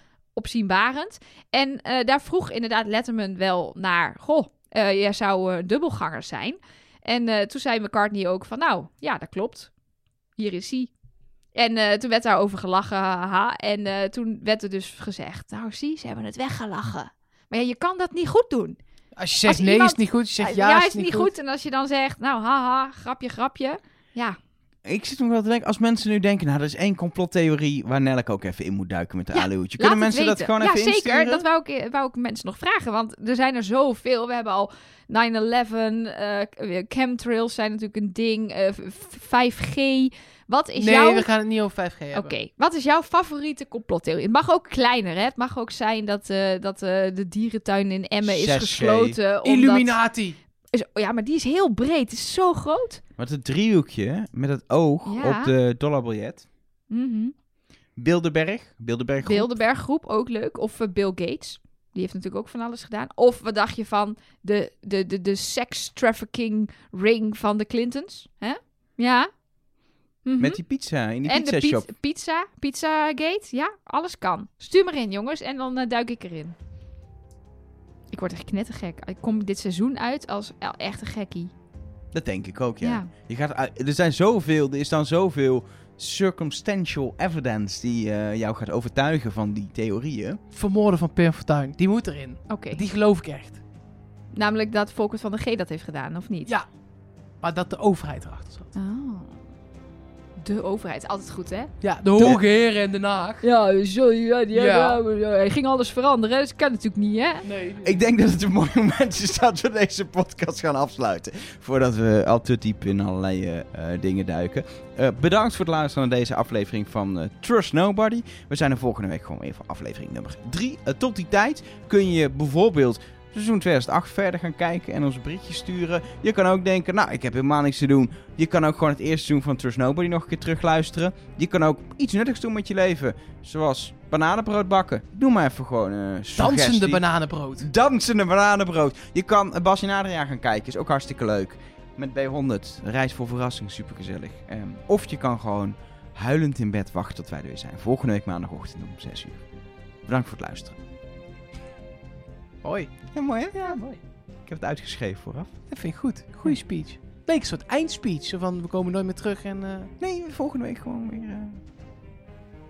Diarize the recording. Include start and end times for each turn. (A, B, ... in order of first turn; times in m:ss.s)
0:00.4-0:09.7 A
0:10.4-0:10.9 A
0:11.5-0:18.8 A
0:19.2-0:21.3 B
0:19.4-0:24.4 A
0:24.8-0:31.4 C
0:29.3-0:41.3 A
0:40.8-0:42.3 B
0:42.1-0:50.0 A
0:48.2-0:49.2 C
0:49.4-0:50.4 B
0:50.7-0:53.0 A
0:53.2-0:56.4 C
0:55.1-0:55.5 A
0:56.9-0:57.3 A
0:58.0-0:59.6 C
0:59.2-1:09.3 A
1:10.2-1:10.6 A
1:10.4-1:11.9 C
1:11.3-1:16.6 A
1:18.1-1:21.5 A
1:22.1-1:30.4 C
1:22.8-1:23.1 A
1:30.5-1:33.6 B
1:32.5-1:32.8 A
1:34.3-1:36.5 A
1:37.4-1:38.7 B
1:38.8-1:39.4 A
1:40.4-1:41.7 A
1:41.8-1:43.5 B
1:43.4-1:47.5 A
1:44.5-1:45.0 B
1:47.4-1:48.0 B
1:47.8-2:17.0 C
2:16.4-2:17.7 B
2:17.6-2:29.4 C
2:30.1-2:30.8 C
2:32.6-2:32.9 B
2:33.1-2:33.8 C
2:33.5-2:34.0 B
2:34.5-2:35.5 C
2:35.7-2:39.9 B
2:40.0-2:41.6 C